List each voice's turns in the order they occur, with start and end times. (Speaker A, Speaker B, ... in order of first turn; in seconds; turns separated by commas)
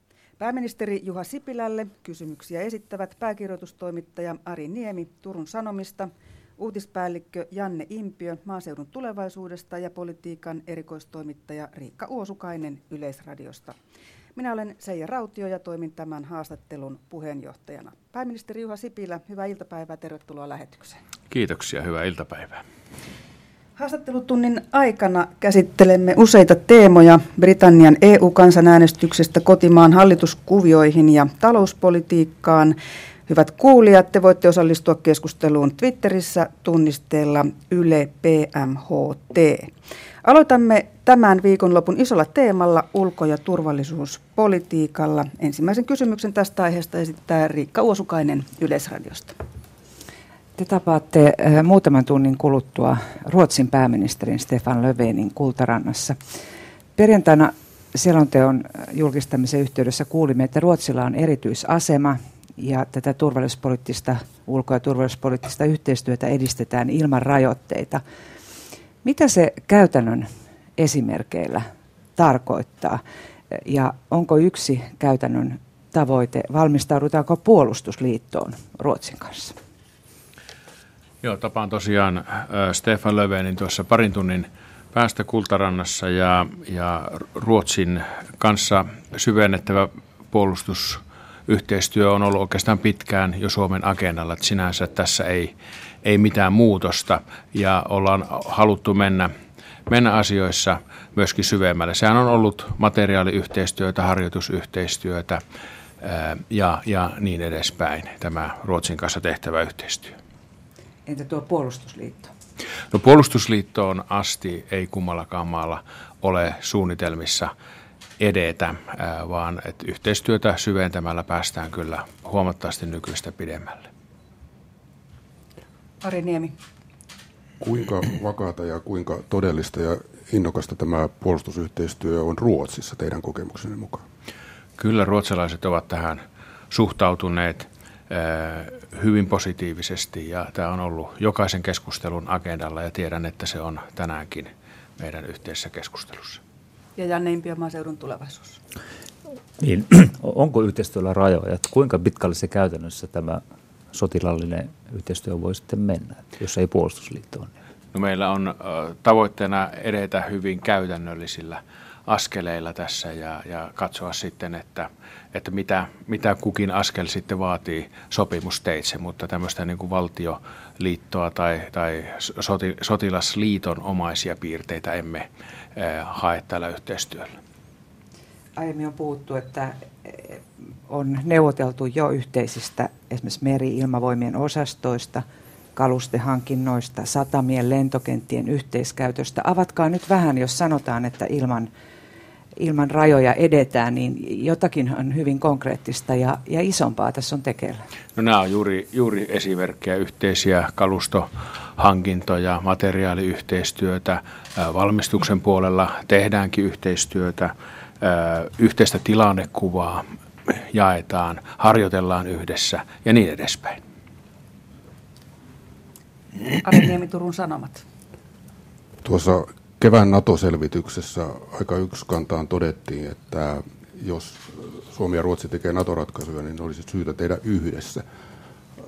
Speaker A: 0.4-13.8, Speaker A: 14.3-21.0, Speaker B: 21.3-22.6, Speaker A: 23.8-39.7, Speaker A: 40.2-49.4, Speaker C: 50.6-56.2, Speaker C: 57.0-68.0, Speaker C: 69.0-71.6, Speaker C: 72.2-79.5, Speaker B: 81.2-99.3, Speaker B: 99.9-105.4, Speaker B: 106.0-110.2, Speaker C: 111.0-112.3, Speaker B: 112.9-117.5, Speaker B: 118.2-123.9, Speaker A: 126.0-126.5, Speaker D: 127.6-134.0, Speaker B: 134.8-146.4, Speaker A: 146.9-148.6, Speaker E: 149.6-157.5, Speaker B: 157.9-177.4, Speaker C: 178.6-185.2, Speaker C: 185.8-191.7, Speaker C: 192.6-197.8, Speaker B: 198.2-213.8, Speaker A: 216.6-217.8, Speaker D: 219.0-228.0